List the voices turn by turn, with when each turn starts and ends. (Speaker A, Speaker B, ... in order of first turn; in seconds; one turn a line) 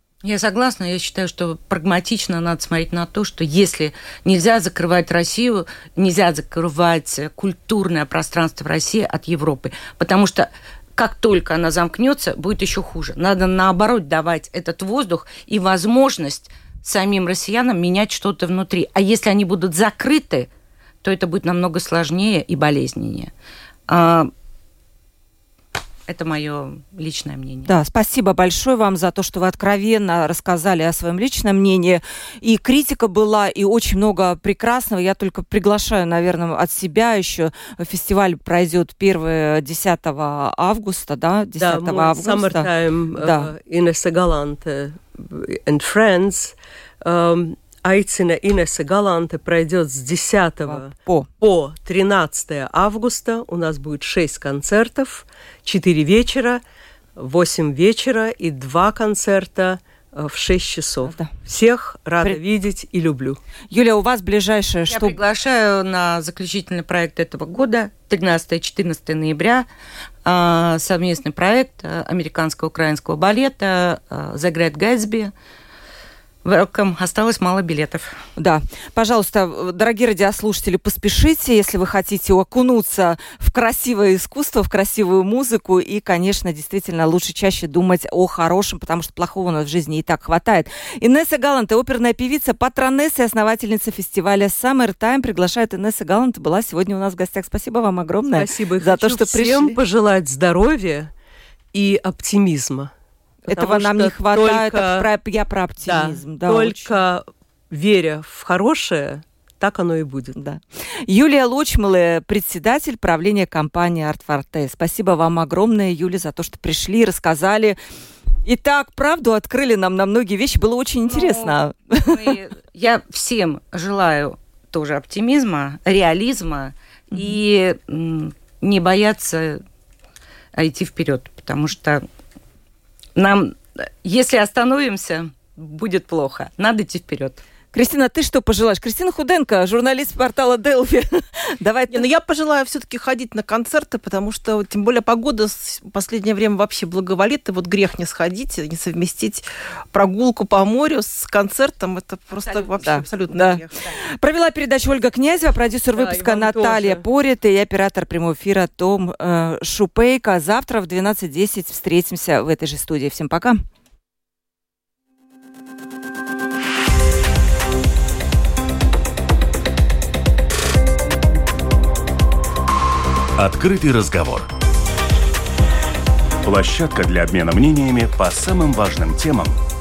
Speaker A: 0.2-20.5
Speaker A: 21.0-23.3
Speaker A: 23.9-24.3
Speaker A: 26.1-27.7
Speaker B: 27.7-43.5
Speaker C: 41.6-56.6
Speaker B: 50.7-51.3
Speaker C: 57.2-63.4
Speaker B: 61.0-61.3
Speaker B: 63.7-65.2
Speaker A: 64.9-69.7
Speaker A: 70.2-75.3
Speaker A: 76.4-78.2
Speaker B: 78.4-99.8
Speaker C: 98.3-101.1
Speaker C: 101.7-102.9
Speaker B: 103.5-106.9
Speaker C: 103.5-105.1
Speaker C: 105.8-110.4
Speaker B: 110.4-117.8
Speaker B: 118.5-122.4
Speaker A: 121.1-129.6
Speaker A: 130.5-132.0
Speaker A: 133.2-137.4
Speaker B: 137.7-142.1
Speaker D: 141.9-153.8
Speaker A: 152.4-152.7
Speaker B: 152.8-163.6
Speaker C: 155.9-157.1
Speaker E: 173.4-174.5
Speaker E: 176.4-179.6